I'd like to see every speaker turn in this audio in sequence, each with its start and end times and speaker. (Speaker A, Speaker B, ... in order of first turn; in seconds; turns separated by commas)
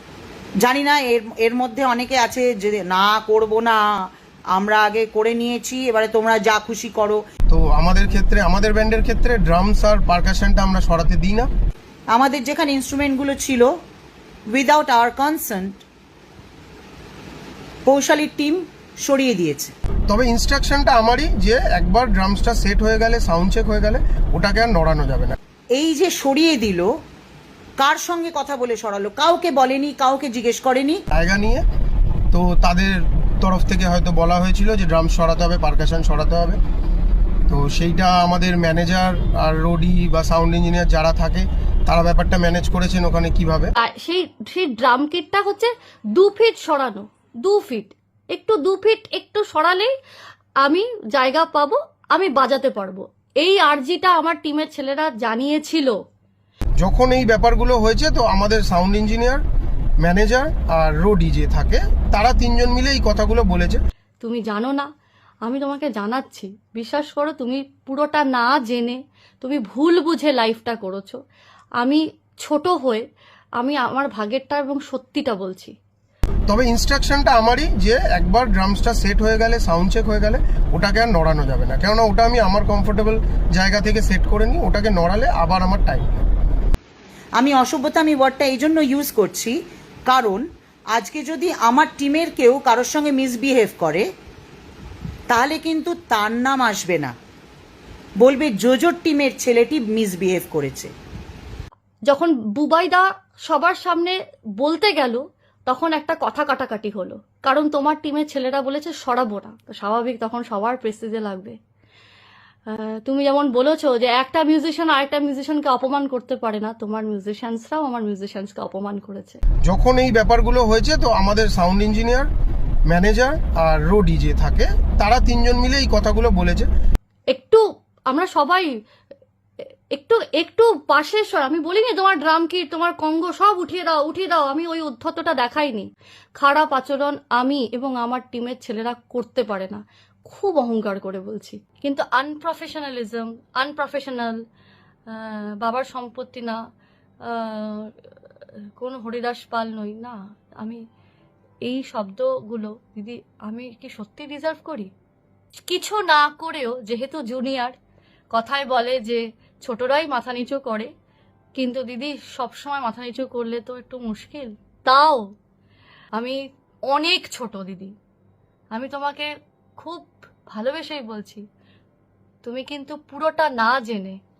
Speaker A: 0.6-3.8, Speaker A: 4.5-7.2, Speaker B: 7.5-11.5, Speaker A: 12.1-13.7, Speaker A: 14.5-15.8, Speaker A: 17.9-19.7, Speaker B: 20.1-25.4, Speaker A: 25.7-26.9, Speaker A: 27.8-31.0, Speaker B: 31.1-31.6, Speaker B: 32.3-36.6, Speaker B: 37.5-43.7, Speaker C: 43.8-49.9, Speaker C: 50.6-56.0, Speaker B: 56.8-59.4, Speaker B: 60.0-63.8, Speaker C: 64.2-64.9, Speaker C: 65.4-71.2, Speaker C: 71.8-73.0, Speaker C: 73.6-75.7, Speaker B: 76.5-86.1, Speaker A: 87.4-94.1, Speaker A: 95.3-97.1, Speaker A: 98.2-100.9, Speaker C: 102.1-111.6, Speaker C: 112.7-119.4, Speaker B: 119.7-122.3, Speaker B: 122.9-126.7, Speaker C: 127.3-128.7, Speaker C: 129.9-144.4, Speaker C: 145.1-146.6, Speaker C: 147.2-147.9, Speaker C: 148.8-150.8, Speaker C: 151.6-154.9, Speaker C: 155.7-157.8, Speaker C: 158.3-160.9, Speaker C: 161.5-165.2, Speaker C: 166.1-167.9, Speaker C: 168.7-171.4, Speaker C: 172.4-174.2